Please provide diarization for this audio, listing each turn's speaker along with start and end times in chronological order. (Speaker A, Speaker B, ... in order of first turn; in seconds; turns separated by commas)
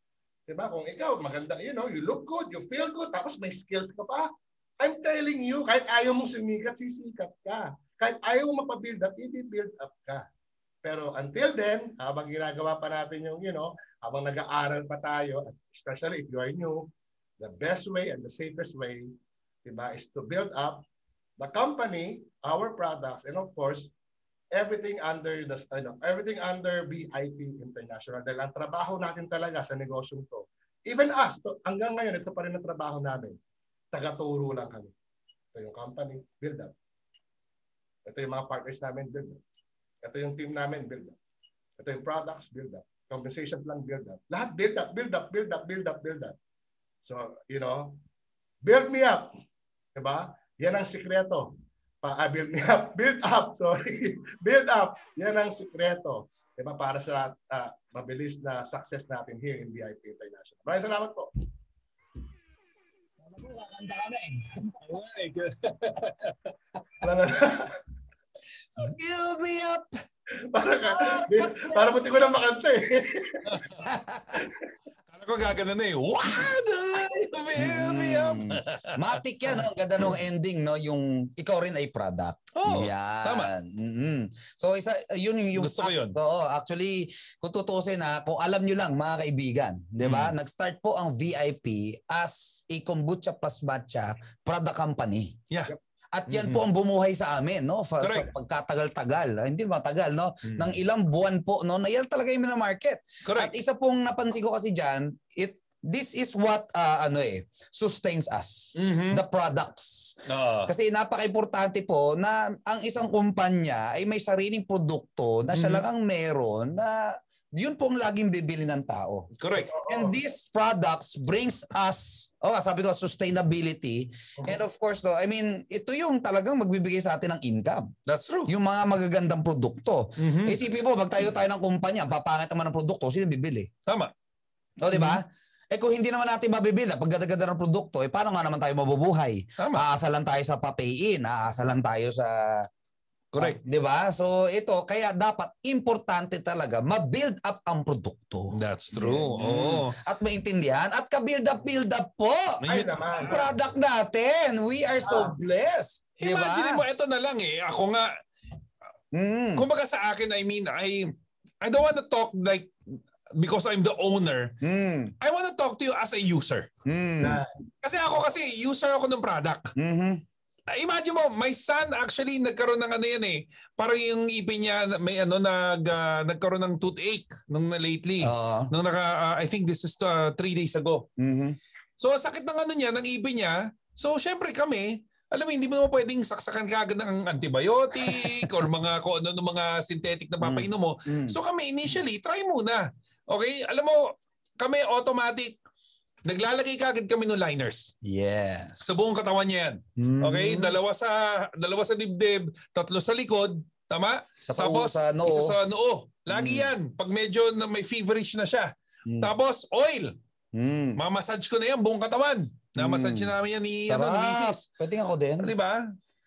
Speaker A: 0.5-4.3, Speaker A: 4.8-10.2, Speaker A: 10.8-20.8, Speaker A: 21.4-23.9, Speaker A: 24.5-33.4, Speaker A: 33.9-34.9, Speaker A: 35.5-36.7, Speaker A: 38.0-39.4, Speaker A: 40.0-41.2, Speaker A: 41.8-46.4, Speaker A: 47.0-48.0, Speaker A: 48.6-49.3, Speaker A: 49.9-51.5, Speaker A: 52.0-61.3, Speaker B: 63.2-64.5, Speaker C: 64.8-66.3, Speaker A: 67.0-67.8, Speaker B: 68.8-69.9, Speaker A: 70.5-73.6, Speaker B: 70.9-72.0, Speaker C: 73.5-73.8, Speaker B: 73.8-74.4, Speaker A: 74.3-74.7, Speaker C: 75.1-80.2, Speaker B: 77.6-119.3, Speaker C: 82.5-83.5, Speaker C: 85.5-86.2, Speaker C: 90.0-90.3, Speaker C: 96.3-96.6, Speaker C: 98.0-98.3, Speaker C: 100.4-100.7, Speaker C: 103.2-103.5, Speaker C: 108.8-109.2, Speaker C: 110.3-110.7, Speaker C: 115.5-115.8, Speaker C: 119.3-119.7, Speaker A: 119.7-120.2, Speaker B: 119.9-127.9, Speaker C: 128.1-128.5, Speaker B: 128.5-133.7, Speaker C: 130.2-130.6, Speaker B: 134.8-142.7, Speaker C: 134.9-135.2, Speaker C: 139.6-139.8, Speaker C: 143.3-143.6, Speaker B: 143.3-148.6, Speaker C: 148.5-149.9, Speaker A: 148.9-149.4, Speaker B: 149.1-152.6, Speaker C: 152.6-153.5, Speaker A: 152.7-153.4, Speaker B: 153.2-156.8, Speaker A: 155.0-155.4, Speaker C: 156.2-158.1, Speaker B: 159.1-159.6, Speaker C: 159.6-162.7, Speaker C: 163.3-164.5, Speaker B: 164.6-165.1, Speaker C: 165.2-166.7, Speaker B: 166.8-167.4, Speaker A: 167.2-167.5, Speaker C: 167.8-169.7, Speaker B: 169.8-170.2, Speaker C: 170.7-181.1, Speaker B: 178.2-178.7, Speaker B: 181.2-181.6, Speaker C: 182.0-194.0, Speaker B: 188.0-188.5, Speaker B: 190.4-191.4, Speaker C: 194.6-195.6, Speaker C: 196.2-197.9, Speaker B: 198.0-198.8, Speaker C: 198.8-208.7, Speaker B: 200.0-200.8, Speaker B: 204.4-205.5, Speaker B: 206.3-206.7, Speaker C: 209.2-210.1, Speaker B: 210.5-211.0, Speaker C: 211.0-214.7, Speaker B: 212.8-213.3, Speaker B: 213.8-215.5, Speaker C: 215.4-215.8